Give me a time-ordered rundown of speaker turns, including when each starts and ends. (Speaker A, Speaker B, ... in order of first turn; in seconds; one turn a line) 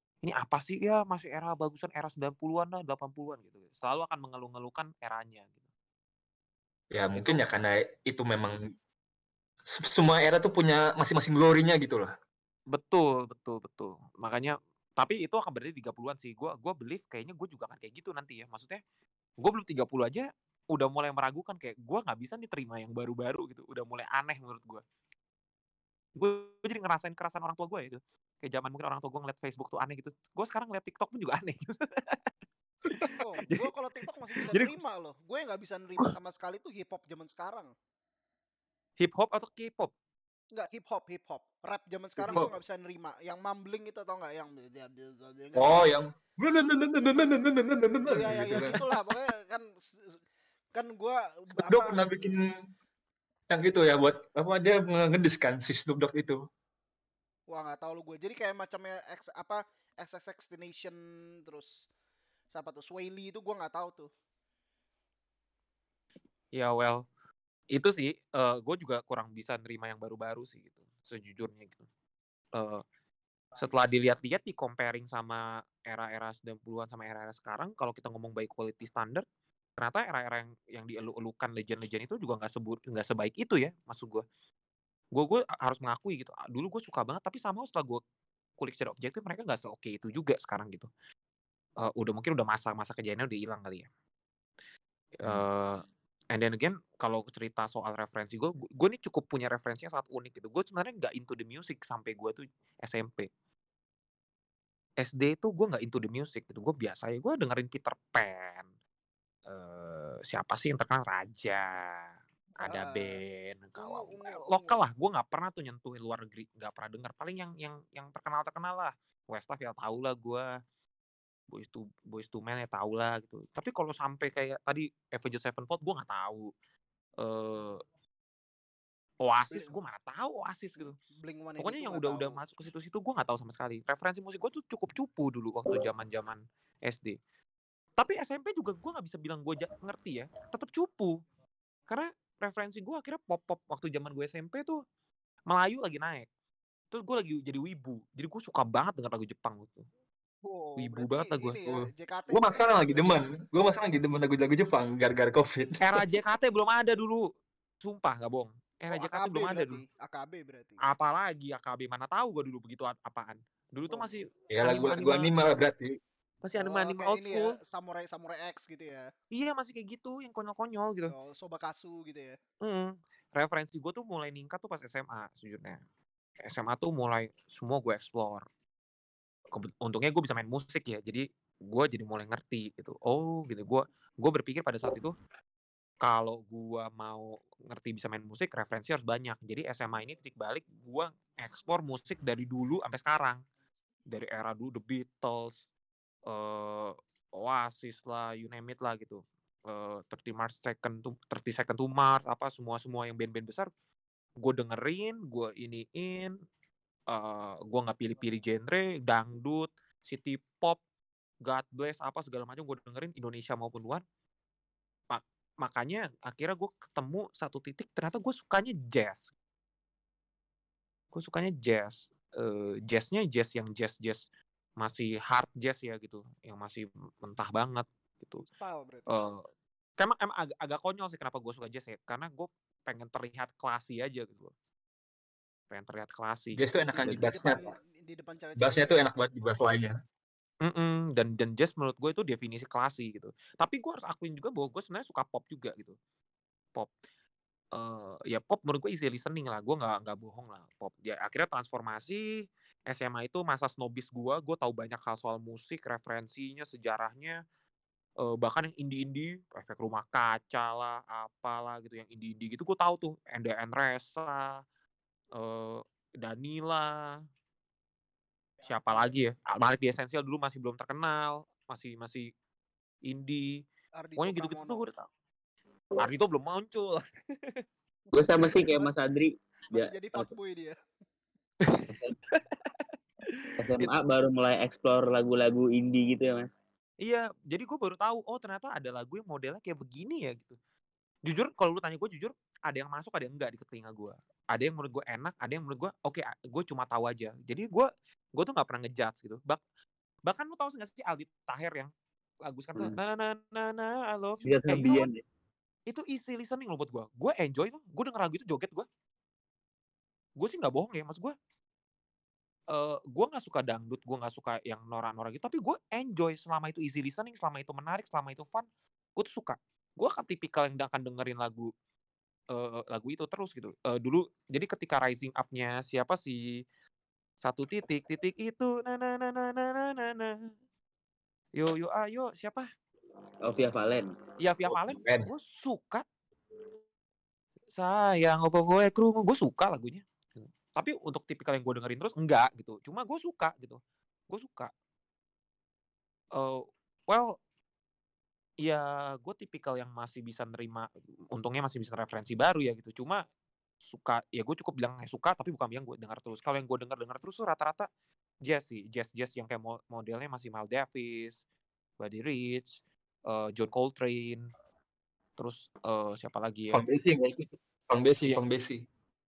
Speaker A: 0.2-5.6
Speaker B: 6.9-8.6
Speaker B: 9.7-12.1
Speaker A: 12.7-18.8
Speaker A: 19.4-24.8
Speaker A: 26.1-32.2
Speaker A: 32.9-33.7
Speaker C: 33.1-37.7
Speaker A: 39.0-39.9
Speaker C: 40.5-45.9
Speaker B: 45.5-48.8
Speaker C: 48.0-50.2
Speaker C: 50.7-52.0
Speaker B: 51.7-52.4
Speaker B: 53.5-56.4
Speaker C: 57.5-61.7
Speaker C: 62.5-64.1
Speaker A: 66.5-67.0
Speaker A: 67.7-71.8
Speaker A: 72.5-72.8
Speaker A: 73.6-79.2
Speaker A: 79.8-84.2
Speaker A: 85.1-88.0
Speaker A: 88.6-90.9
Speaker A: 91.8-93.9
Speaker A: 95.2-103.3
Speaker A: 105.0-108.7
Speaker A: 109.5-120.5
Speaker C: 112.6-113.2
Speaker C: 113.8-114.8
Speaker A: 121.5-126.5
Speaker A: 127.2-127.8
Speaker A: 129.2-131.0
Speaker C: 131.2-132.4
Speaker A: 131.6-137.2
Speaker A: 138.0-141.2
Speaker A: 141.9-144.8
Speaker A: 145.5-146.3
Speaker A: 146.9-149.9
Speaker C: 150.4-153.3
Speaker A: 150.8-151.6
Speaker B: 151.6-156.0
Speaker A: 155.8-157.3
Speaker A: 157.8-159.8
Speaker C: 158.9-160.8
Speaker A: 160.8-165.3
Speaker C: 163.9-164.2
Speaker B: 164.5-165.9
Speaker A: 166.4-167.6
Speaker C: 166.6-169.1
Speaker A: 169.3-171.1
Speaker C: 171.1-172.4
Speaker A: 172.6-175.8
Speaker A: 176.4-178.4
Speaker A: 179.5-185.1
Speaker A: 186.0-193.4
Speaker A: 194.1-195.7
Speaker A: 196.3-203.7
Speaker A: 204.4-206.3
Speaker A: 207.1-210.8
Speaker A: 211.4-214.0
Speaker A: 215.1-219.3
Speaker A: 221.1-224.2
Speaker A: 224.8-228.4
Speaker C: 228.6-229.2
Speaker A: 229.1-229.5
Speaker A: 230.0-234.5
Speaker A: 235.7-237.6
Speaker B: 236.6-237.7
Speaker C: 236.9-238.9
Speaker B: 238.6-239.9
Speaker A: 240.6-246.0
Speaker A: 247.7-257.4
Speaker A: 258.2-264.6
Speaker A: 265.4-267.2
Speaker A: 268.6-272.3
Speaker A: 273.0-273.6
Speaker C: 274.0-274.8
Speaker A: 274.2-275.1
Speaker A: 276.0-277.6
Speaker C: 278.1-278.9
Speaker D: 278.1-280.3
Speaker C: 279.7-280.8
Speaker A: 281.6-283.9
Speaker D: 281.9-282.2
Speaker D: 283.6-286.6
Speaker A: 287.0-290.6
Speaker A: 291.2-299.6
Speaker A: 300.3-301.9
Speaker A: 302.4-305.1
Speaker D: 304.4-305.2
Speaker A: 305.9-308.9
Speaker A: 310.4-311.3
Speaker A: 312.7-321.7
Speaker A: 322.5-326.6
Speaker A: 327.4-330.5
Speaker A: 331.5-332.7
Speaker D: 333.4-334.1
Speaker A: 334.4-336.0
Speaker B: 334.6-335.3
Speaker A: 337.7-344.7
Speaker A: 346.3-347.4
Speaker A: 348.6-353.2
Speaker A: 353.8-357.9
Speaker A: 358.4-361.4
Speaker A: 362.0-364.5
Speaker A: 365.4-366.8
Speaker B: 366.7-368.8